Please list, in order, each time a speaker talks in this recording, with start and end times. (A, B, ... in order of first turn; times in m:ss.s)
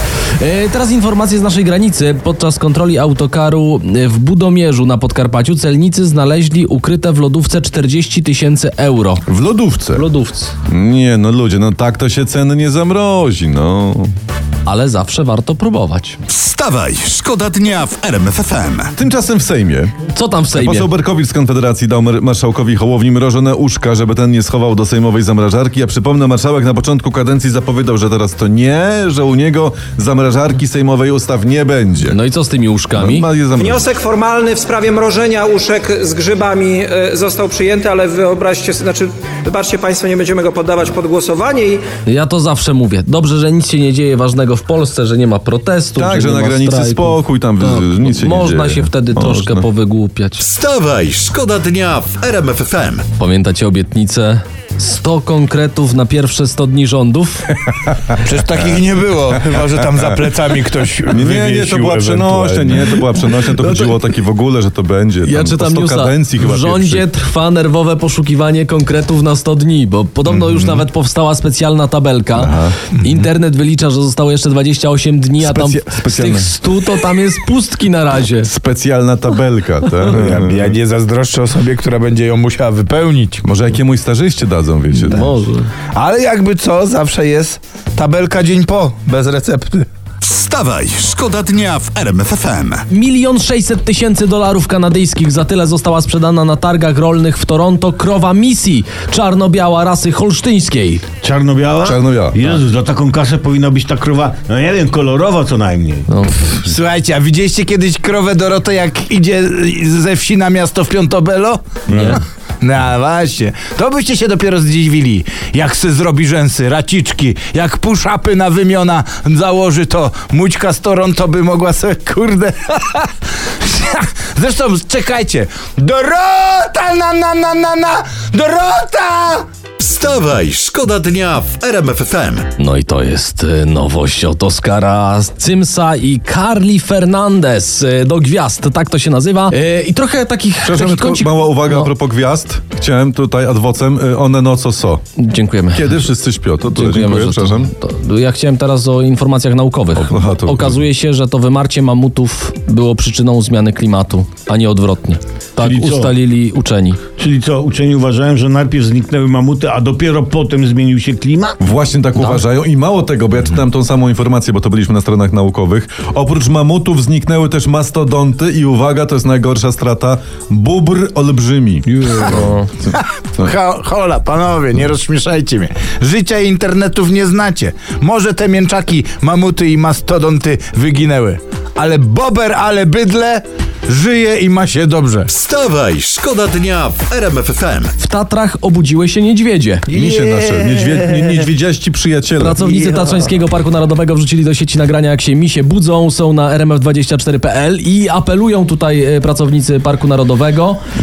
0:00.4-0:09.2 A
0:09.3-0:10.0 B
0:10.0-0:10.5 A
0:10.7-0:14.1 B
0:14.6-0:16.2 A
0:16.3-0:18.9 C
0:19.0-0:20.0 B
0:20.1-0:20.9 A
0:20.5-0:32.2 B
0:32.0-0:33.3 A
0:33.0-0:33.9 B
0:34.0-0:41.8 D
0:42.0-0:50.4 A
0:46.0-0:49.7 B
0:50.4-0:53.0 C
0:53.2-0:57.6 A
0:58.2-1:02.7 E
1:01.1-1:07.1 B
1:03.3-1:04.0 A
1:05.2-1:18.5 A
1:10.3-1:10.9 B
1:12.4-1:12.8 B
1:15.4-1:16.6 B
1:18.4-1:20.7 B
1:20.1-1:23.4 E
1:23.4-1:25.3 B
1:25.0-1:25.7 A
1:25.9-1:29.9 E
1:30.2-1:32.8 C
1:32.9-1:41.0 A
1:41.2-1:46.1 F
1:41.8-1:42.4 B
1:46.1-1:46.6 A
1:46.4-1:51.7 E
1:51.9-1:52.2 F
1:51.9-1:52.2 A
1:52.6-2:03.1 E
2:03.6-2:09.5 E
2:09.8-2:12.5 C
2:12.6-2:21.9 A
2:20.6-2:25.0 B
2:25.2-2:25.8 A
2:25.7-2:27.7 B
2:26.7-2:37.0 A
2:30.0-2:30.8 B
2:35.6-2:36.1 F
2:37.2-2:41.6 F
2:41.6-2:52.4 B
2:42.2-2:42.4 A
2:52.1-3:05.3 E
3:05.3-3:07.9 C
3:08.0-3:09.9 A
3:09.9-3:11.3 E
3:09.9-3:12.7 B
3:12.4-3:20.8 A